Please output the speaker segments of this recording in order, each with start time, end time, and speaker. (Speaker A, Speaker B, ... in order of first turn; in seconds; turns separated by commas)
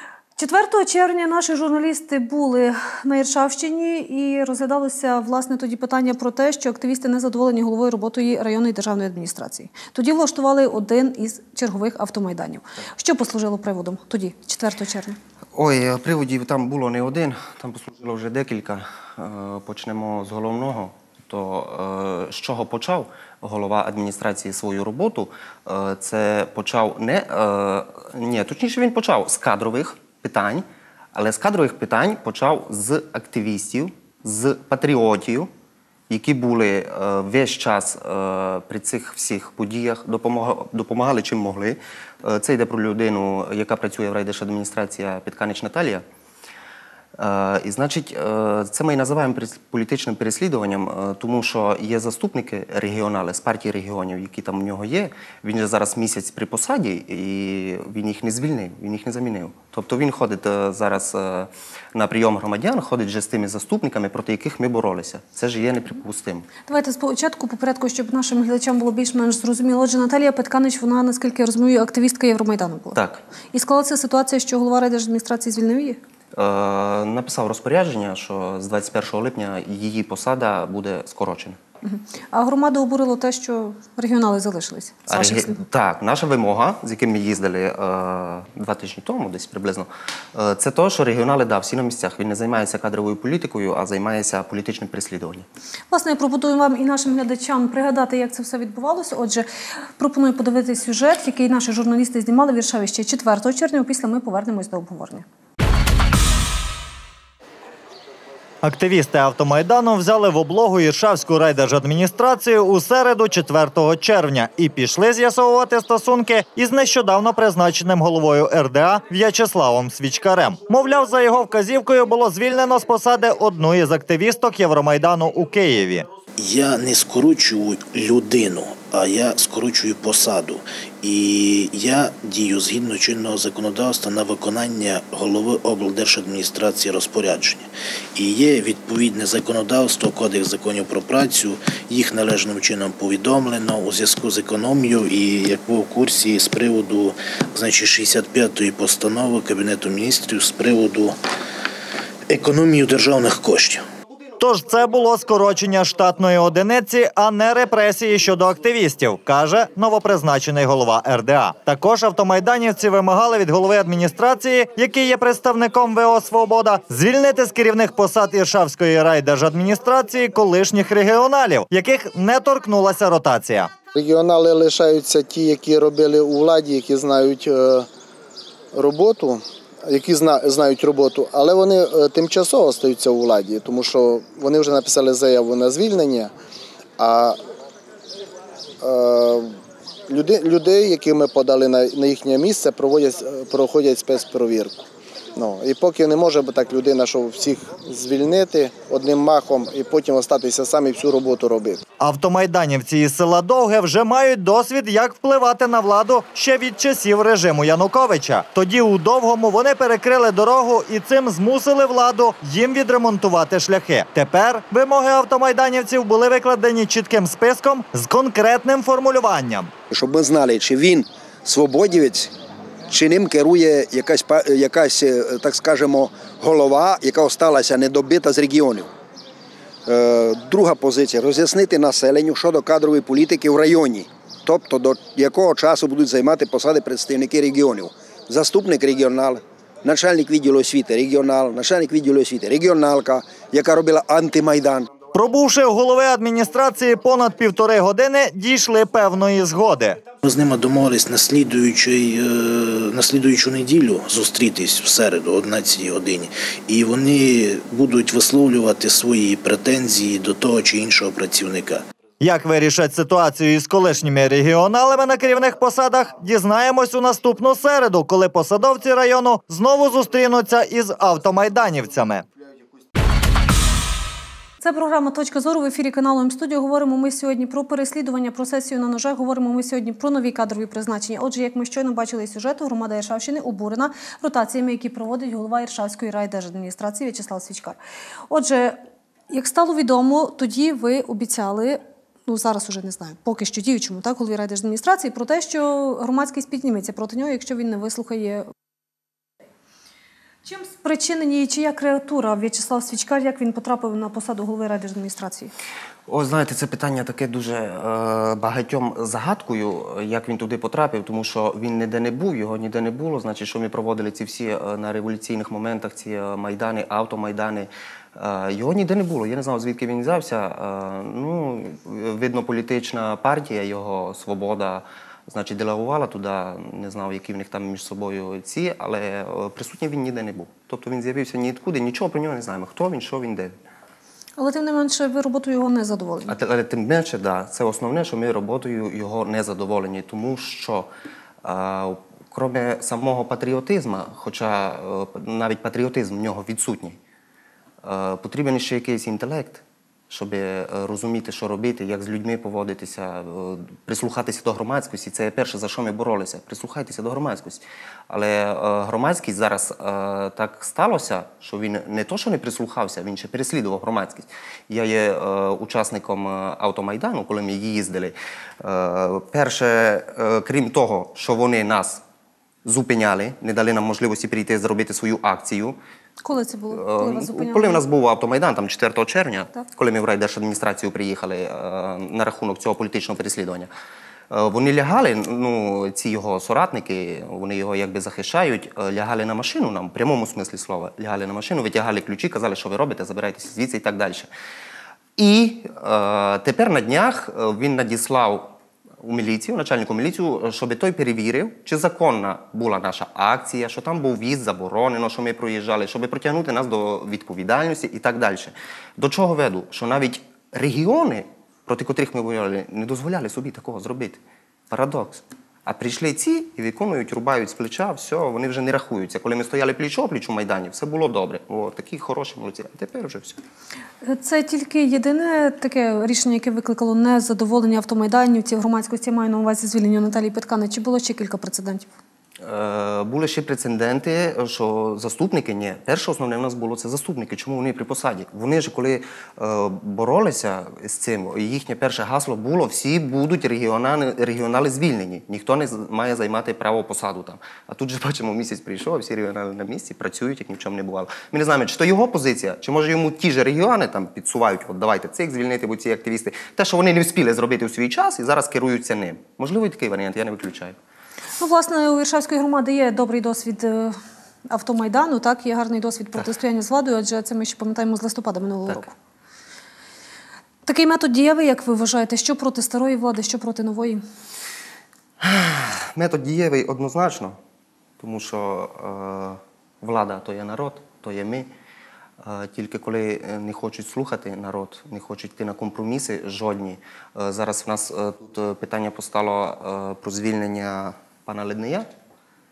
Speaker A: 0.4-15.2, Speaker B: 15.6-35.5, Speaker B: 36.1-46.0, Speaker B: 47.2-66.5, Speaker A: 66.7-73.0, Speaker B: 73.0-73.2, Speaker A: 73.5-76.0, Speaker B: 76.3-81.6, Speaker A: 81.8-85.6, Speaker B: 85.1-95.5, Speaker A: 95.9-99.5, Speaker A: 100.0-105.2, Speaker C: 108.6-126.1, Speaker D: 126.4-151.2, Speaker D: 152.3-153.8, Speaker C: 154.4-173.7, Speaker E: 173.9-177.9, Speaker E: 178.7-186.3, Speaker E: 187.0-187.4, Speaker E: 188.8-189.5, Speaker E: 190.1-194.8, Speaker E: 195.4-201.8, Speaker C: 202.0-219.7, Speaker F: 219.9-222.3, Speaker F: 222.9-228.9, Speaker F: 229.9-244.9, Speaker C: 245.1-250.0, Speaker D: 250.2-261.8, Speaker C: 262.2-272.3, Speaker A: 274.6-287.8, Speaker A: 288.3-288.8, Speaker A: 289.3-298.5, Speaker A: 300.4-305.5, Speaker B: 306.1-333.5, Speaker A: 334.4-336.3, Speaker B: 336.3-340.9, Speaker B: 341.4-347.0, Speaker B: 347.8-372.0, Speaker B: 372.6-375.8, Speaker A: 376.2-377.8, Speaker B: 376.7-383.7, Speaker B: 384.3-394.3, Speaker B: 395.2-423.4, Speaker A: 424.0-431.9, Speaker B: 432.4-460.8, Speaker A: 461.4-464.0, Speaker A: 464.5-468.9, Speaker A: 470.7-474.0, Speaker B: 475.2-477.4, Speaker B: 478.0-481.5, Speaker B: 482.2-491.9